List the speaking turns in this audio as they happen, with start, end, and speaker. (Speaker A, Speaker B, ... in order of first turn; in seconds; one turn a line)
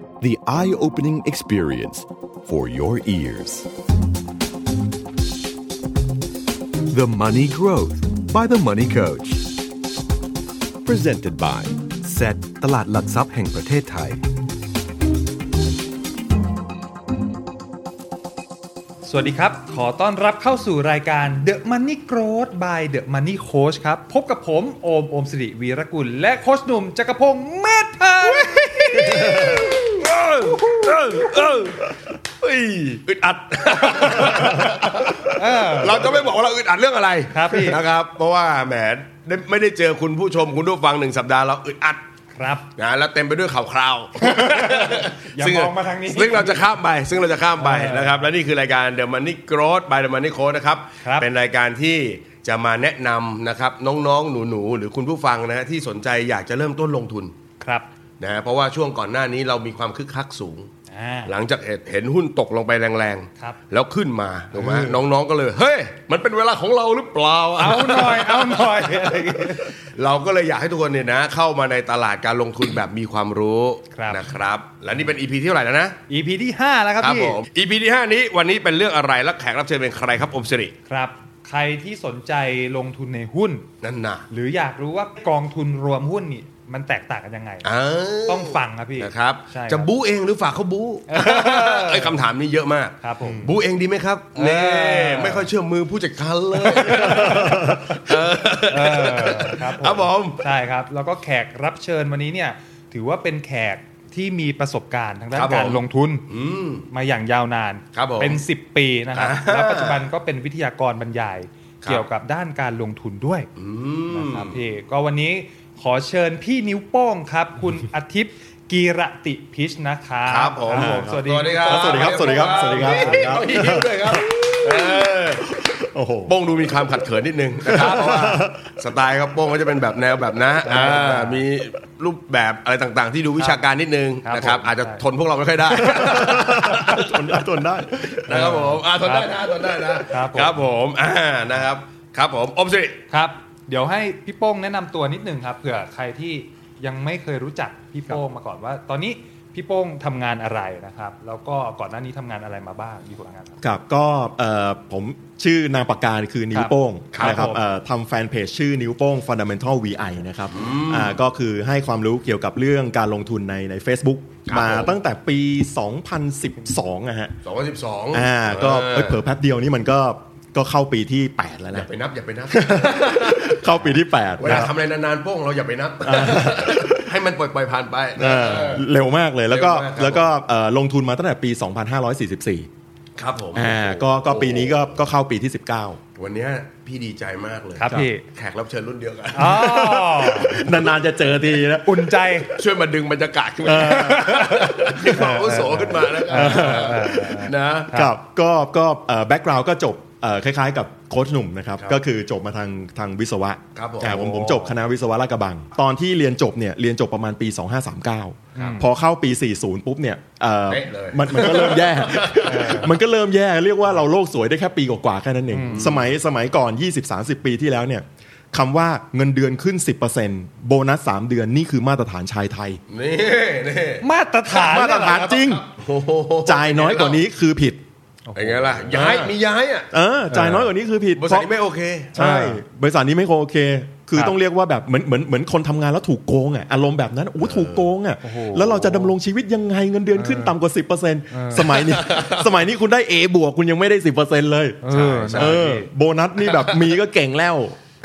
Speaker A: 0.2-3.7
Speaker A: 6.9-9.5
Speaker A: 10.8-14.2
Speaker B: 19.1-29.9
Speaker C: 29.0-31.9
Speaker B: 30.4-31.6
Speaker C: 32.4-42.0
Speaker B: 34.1-36.1
Speaker B: 37.3-37.8
Speaker B: 42.4-42.6
Speaker C: 42.8-57.3
Speaker B: 44.2-46.6
Speaker B: 47.6-48.3
Speaker B: 57.6-57.9
Speaker C: 58.2-60.7
Speaker B: 60.9-61.3
Speaker C: 61.2-68.6
Speaker B: 64.5-65.0
Speaker B: 67.6-69.7
Speaker C: 69.9-76.0
Speaker B: 73.9-74.2
Speaker B: 76.1-77.4
Speaker C: 77.0-80.7
Speaker B: 80.8-83.7
Speaker C: 83.8-84.2
Speaker B: 84.3-87.7
Speaker C: 87.6-100.4
Speaker B: 88.3-89.9
Speaker B: 91.1-92.2
Speaker B: 93.0-93.5
Speaker B: 94.3-95.4
Speaker B: 96.7-97.4
Speaker D: 96.8-97.9
Speaker B: 98.7-106.2
Speaker C: 105.3-106.8
Speaker B: 106.9-113.5
Speaker C: 107.9-108.4
Speaker C: 109.1-110.0
Speaker C: 113.6-114.6
Speaker B: 114.1-123.3
Speaker C: 120.3-125.6
Speaker D: 120.7-126.3
Speaker C: 126.3-137.2
Speaker D: 127.6-128.7
Speaker B: 130.6-131.4
Speaker B: 134.2-135.0
Speaker D: 135.7-138.4
Speaker C: 138.2-143.0
Speaker B: 138.3-139.3
Speaker B: 139.9-140.6
Speaker B: 143.1-153.6
Speaker D: 153.6-167.3
Speaker B: 156.5-157.6
Speaker C: 157.1-157.4
Speaker C: 160.5-161.2
Speaker C: 164.5-164.9
Speaker C: 167.4-169.2
Speaker D: 168.1-171.9
Speaker C: 171.7-173.6
Speaker D: 172.5-174.7
Speaker C: 174.4-178.8
Speaker D: 176.0-177.1
Speaker D: 178.2-182.7
Speaker C: 179.5-180.2
Speaker C: 183.2-184.7
Speaker D: 183.5-186.0
Speaker C: 186.2-190.9
Speaker B: 187.8-188.2
Speaker B: 189.3-190.7
Speaker D: 189.4-192.3
Speaker B: 191.8-192.5
Speaker C: 192.5-197.9
Speaker D: 193.7-195.1
Speaker B: 193.8-198.1
Speaker D: 196.3-197.1
Speaker D: 197.9-222.8
Speaker C: 203.8-204.7
Speaker B: 208.5-208.9
Speaker C: 210.7-212.7
Speaker B: 212.4-212.9
Speaker B: 215.5-215.8
Speaker C: 215.6-216.1
Speaker C: 222.9-224.0
Speaker B: 224.0-225.4
Speaker D: 224.5-225.6
Speaker C: 225.0-227.2
Speaker D: 226.4-227.8
Speaker B: 228.3-228.8
Speaker C: 228.3-230.6
Speaker D: 228.9-229.3
Speaker D: 229.9-231.5
Speaker B: 230.3-230.6
Speaker C: 231.2-232.1
Speaker D: 232.1-247.8
Speaker B: 232.2-232.6
Speaker C: 237.4-237.8
Speaker B: 238.2-239.1
Speaker B: 240.2-240.5
Speaker B: 241.3-241.8
Speaker C: 241.6-242.5
Speaker B: 244.8-245.9
Speaker C: 244.9-245.6
Speaker C: 246.4-246.9